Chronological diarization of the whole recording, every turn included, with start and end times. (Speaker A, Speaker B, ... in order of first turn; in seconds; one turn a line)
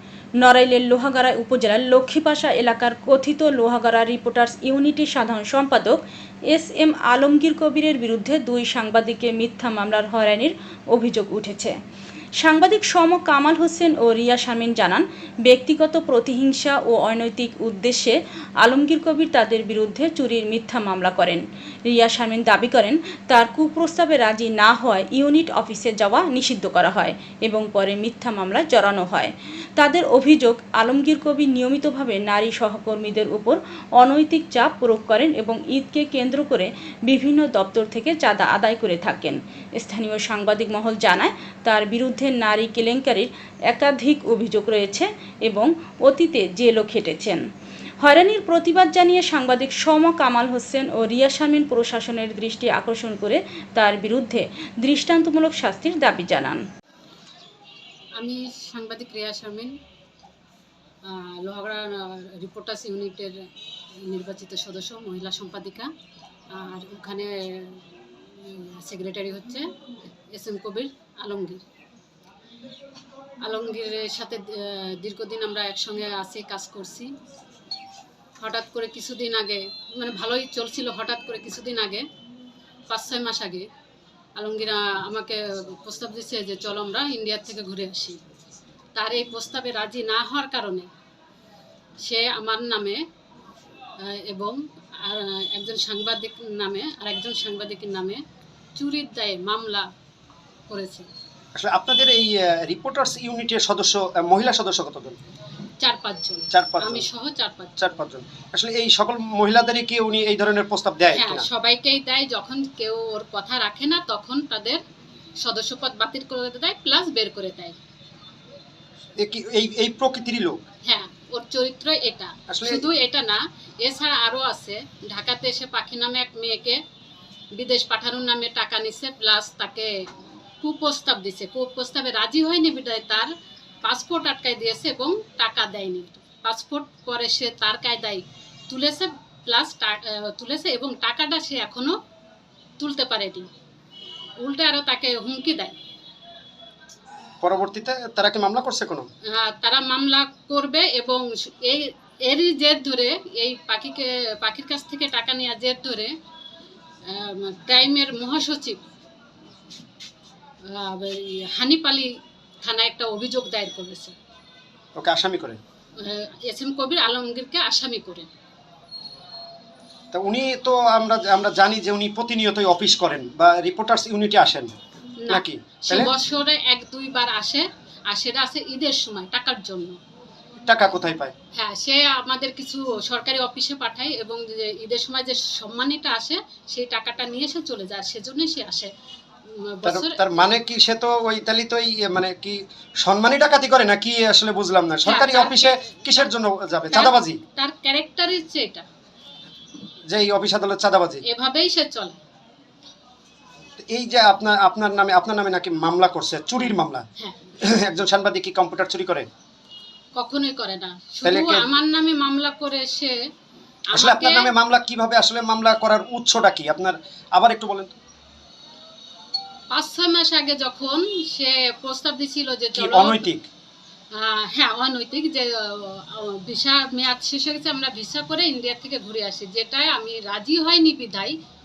Speaker A: 0.4-6.0
Speaker A: 6.5-11.7
Speaker A: 12.4-47.4
Speaker A: 48.0-56.6
Speaker B: 58.2-59.7
Speaker B: 61.1-63.3
Speaker B: 64.0-65.9
Speaker B: 66.5-69.7
Speaker B: 70.3-71.6
Speaker B: 73.4-77.1
Speaker B: 78.4-82.0
Speaker B: 82.9-83.7
Speaker B: 84.4-88.2
Speaker B: 89.0-90.9
Speaker B: 92.0-93.0
Speaker B: 94.0-98.2
Speaker B: 98.8-99.9
Speaker B: 100.7-101.1
Speaker C: 101.5-105.2
Speaker B: 105.8-107.7
Speaker C: 106.5-107.1
Speaker C: 107.8-111.5
Speaker B: 111.1-114.8
Speaker B: 115.4-117.8
Speaker C: 119.2-120.6
Speaker B: 120.8-126.8
Speaker C: 122.5-122.9
Speaker B: 127.5-129.9
Speaker B: 130.6-133.3
Speaker B: 133.8-142.0
Speaker B: 142.8-143.5
Speaker B: 144.4-145.8
Speaker C: 147.4-149.1
Speaker B: 149.3-156.1
Speaker B: 157.1-158.8
Speaker B: 160.7-162.1
Speaker B: 162.6-164.1
Speaker C: 165.0-165.6
Speaker B: 166.0-168.3
Speaker C: 170.1-174.7
Speaker B: 175.2-180.0
Speaker C: 175.3-176.1
Speaker C: 180.7-181.3
Speaker B: 181.5-188.9
Speaker B: 189.5-190.3
Speaker C: 189.8-197.4
Speaker B: 195.1-196.3
Speaker B: 196.9-198.9
Speaker C: 200.1-201.2
Speaker B: 201.2-202.2
Speaker C: 203.8-207.1
Speaker B: 207.2-207.5
Speaker C: 207.6-209.3
Speaker B: 210.2-213.2
Speaker C: 211.2-211.7
Speaker B: 213.9-214.5
Speaker C: 213.9-217.9
Speaker B: 219.7-223.3
Speaker C: 222.8-223.4
Speaker B: 224.2-231.3